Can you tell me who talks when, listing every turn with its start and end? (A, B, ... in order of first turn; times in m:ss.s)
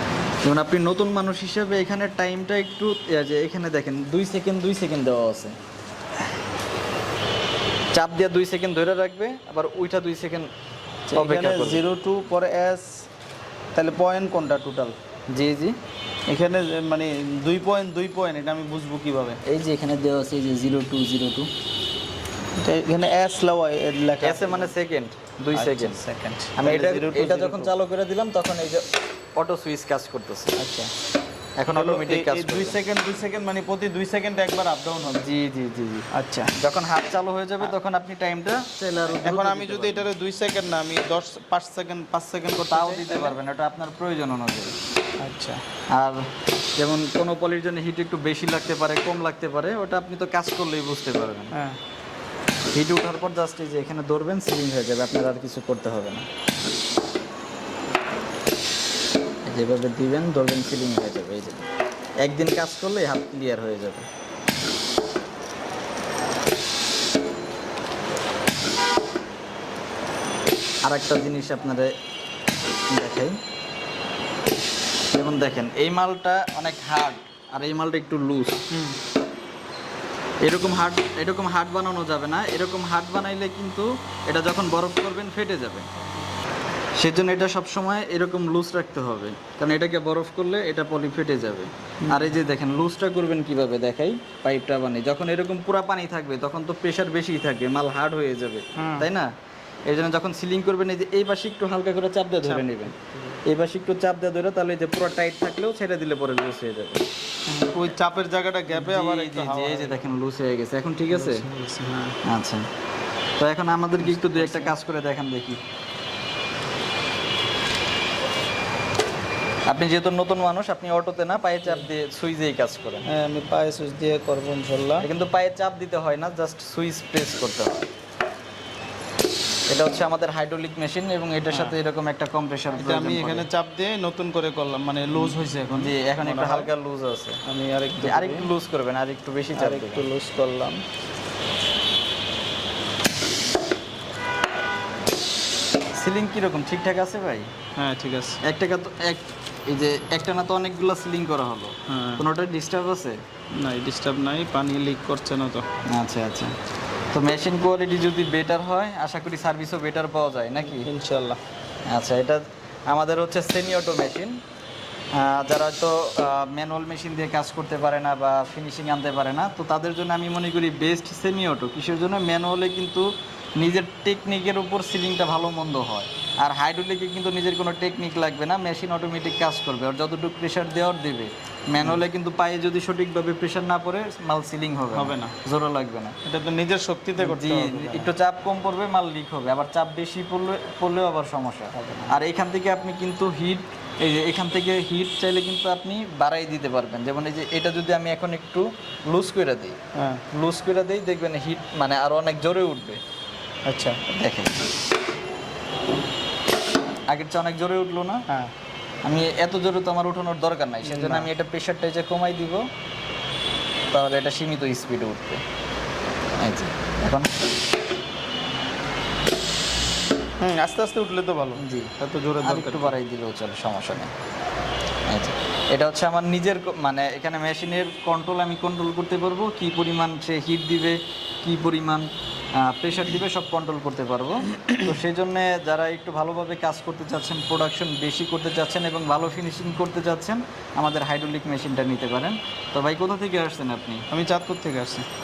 0:00.4-0:05.6 A
0:07.9-0:10.5 A
0:11.1-0:13.1 B
0:11.1-0:11.8 A
0:13.8-0:15.0 B
0:15.3-0:15.8 A
0:16.3-0:19.4 B
0:19.4-0:21.5 A
0:22.6-0:24.7 B
0:24.2-0:26.0 A
0:25.5-0:27.7 B
0:26.6-0:28.8 A
0:29.4-0:30.6 A
0:30.6-0:30.9 B
0:31.6-0:32.8 A
0:31.7-0:35.3 B
0:35.0-0:40.1 A
0:36.1-0:36.5 B
0:39.1-0:43.4 B
0:42.7-0:44.7 A
0:45.2-0:45.6 B
0:45.9-0:51.6 A
0:51.5-0:51.8 B
0:52.7-0:56.3 A
0:59.4-1:01.7 A
1:02.2-1:04.1 A
1:10.8-1:11.9 A
1:12.9-1:13.4 A
1:15.1-1:18.6 A
1:18.7-1:19.0 B
1:20.4-1:25.9 A
1:27.0-1:39.3 A
1:32.0-1:32.3 B
1:38.8-1:39.1 B
1:39.9-1:42.9 A
1:42.4-1:42.7 B
1:43.4-1:47.0 A
1:47.5-1:50.1 B
1:48.7-1:51.4 A
1:51.1-1:52.2 B
1:52.2-1:52.7 A
1:53.4-1:55.6 A
1:54.0-1:54.8 B
1:59.7-2:03.1 A
2:03.1-2:05.1 B
2:05.0-2:07.8 A
2:09.7-2:13.5 A
2:11.5-2:11.8 B
2:12.7-2:16.7 B
2:15.2-2:17.4 A
2:17.4-2:18.5 B
2:18.0-2:20.1 A
2:19.6-2:20.8 B
2:26.0-2:27.5 A
2:27.8-2:28.4 B
2:28.4-2:33.2 A
2:31.9-2:32.2 B
2:33.6-2:35.7 B
2:35.9-2:36.6 A
2:37.1-2:40.9 A
2:40.6-2:41.4 B
2:41.9-2:44.4 A
2:45.1-3:06.2 A
3:04.9-3:05.4 B
3:06.2-3:08.1 B
3:07.2-3:19.8 A
3:11.8-3:12.1 B
3:20.0-3:20.2 B
3:20.3-3:23.0 A
3:23.7-3:24.0 B
3:24.1-3:24.6 A
3:27.1-3:28.2 A
3:29.0-3:32.6 A
3:30.8-3:31.3 B
3:33.9-3:35.4 A
3:36.4-3:37.3 A
3:40.4-3:43.0 B
3:41.6-3:41.9 A
3:42.4-3:44.1 A
3:45.1-4:04.0 A
4:04.1-4:05.1 B